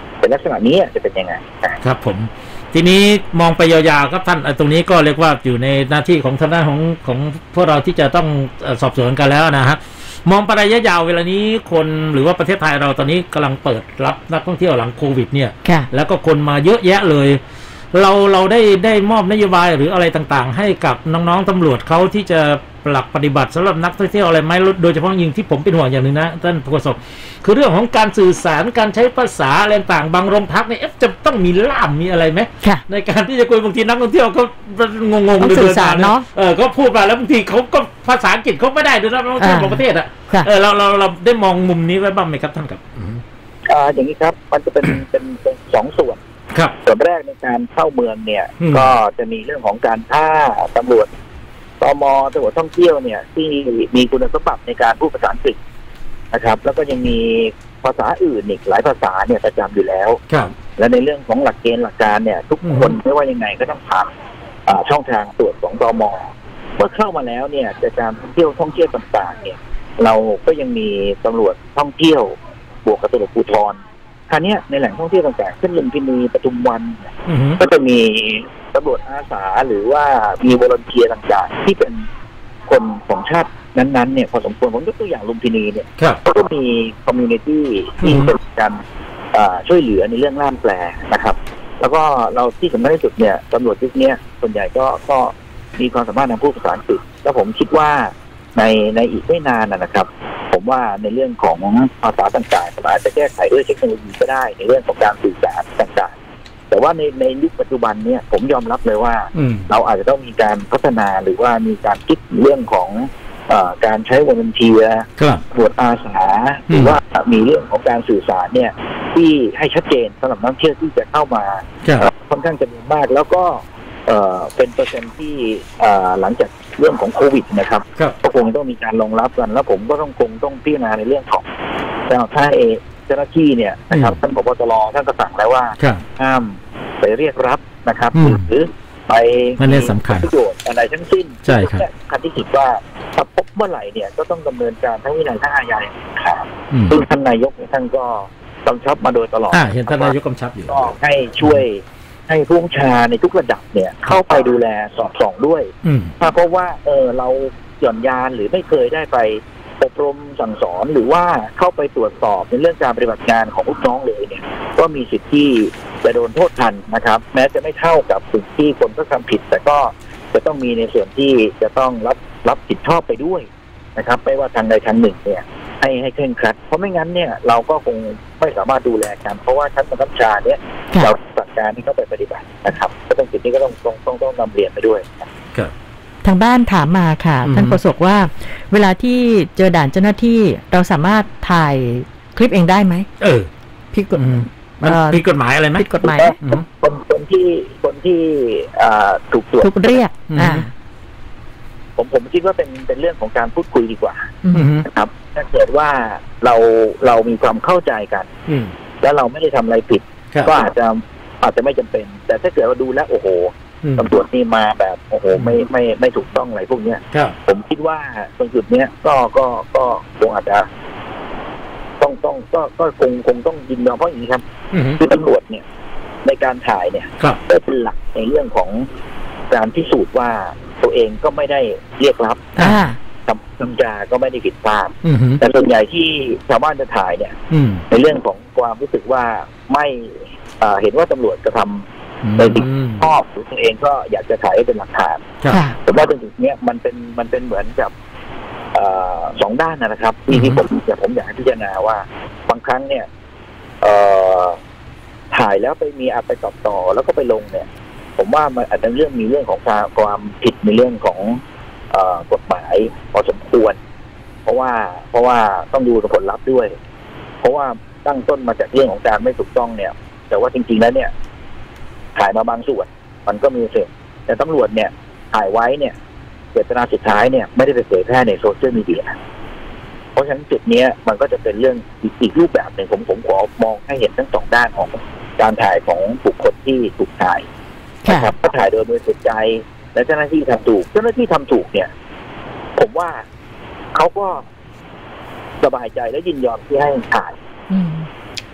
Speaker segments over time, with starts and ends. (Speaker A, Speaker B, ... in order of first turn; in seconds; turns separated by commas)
Speaker A: 0.2-1.8, Speaker B: 1.8-17.4, Speaker B: 17.9-43.2, Speaker C: 35.4-36.2, Speaker C: 39.4-40.5, Speaker A: 43.7-46.2, Speaker A: 46.8-51.1, Speaker B: 48.6-48.9, Speaker A: 51.8-55.6, Speaker A: 56.3-60.2, Speaker A: 60.8-64.1, Speaker B: 62.6-63.0, Speaker A: 64.7-66.3, Speaker A: 66.8-82.0, Speaker B: 77.3-77.6, Speaker A: 82.7-88.8, Speaker B: 88.0-88.3, Speaker A: 89.3-106.1, Speaker A: 106.7-131.4, Speaker B: 109.3-109.7, Speaker B: 115.2-115.4, Speaker B: 116.7-117.0, Speaker A: 132.1-150.1, Speaker B: 133.9-134.2, Speaker B: 138.1-138.4, Speaker B: 139.6-140.3, Speaker B: 141.4-141.8, Speaker B: 146.7-147.0, Speaker B: 149.5-151.6, Speaker A: 150.7-185.3, Speaker B: 155.8-156.1, Speaker C: 186.2-193.1, Speaker B: 187.4-187.8, Speaker B: 193.2-193.5, Speaker C: 193.9-195.2, Speaker B: 194.1-195.8, Speaker C: 195.7-196.4, Speaker A: 196.0-200.0, Speaker C: 199.6-200.7, Speaker B: 200.3-200.6, Speaker A: 202.0-208.3, Speaker C: 204.4-204.7, Speaker B: 204.5-204.8, Speaker A: 209.0-220.7, Speaker B: 213.8-214.1, Speaker A: 222.0-225.6, Speaker B: 224.7-225.0, Speaker A: 226.2-228.9, Speaker A: 229.5-232.6, Speaker C: 232.6-233.0, Speaker A: 233.2-237.3, Speaker B: 235.0-235.4, Speaker B: 237.5-237.8, Speaker A: 237.9-241.8, Speaker B: 242.2-243.1, Speaker A: 242.3-245.3, Speaker C: 245.5-245.8, Speaker A: 245.8-247.9, Speaker A: 248.7-253.1, Speaker B: 250.3-250.6, Speaker A: 253.8-254.6, Speaker A: 255.3-257.6, Speaker A: 258.2-263.8, Speaker A: 264.4-266.7, Speaker A: 267.4-271.1, Speaker A: 272.1-275.9, Speaker A: 276.5-279.1, Speaker A: 280.1-287.4, Speaker C: 288.0-288.3, Speaker A: 288.1-291.9, Speaker A: 292.8-293.2, Speaker A: 293.9-294.4, Speaker A: 295.6-297.3, Speaker C: 297.7-298.1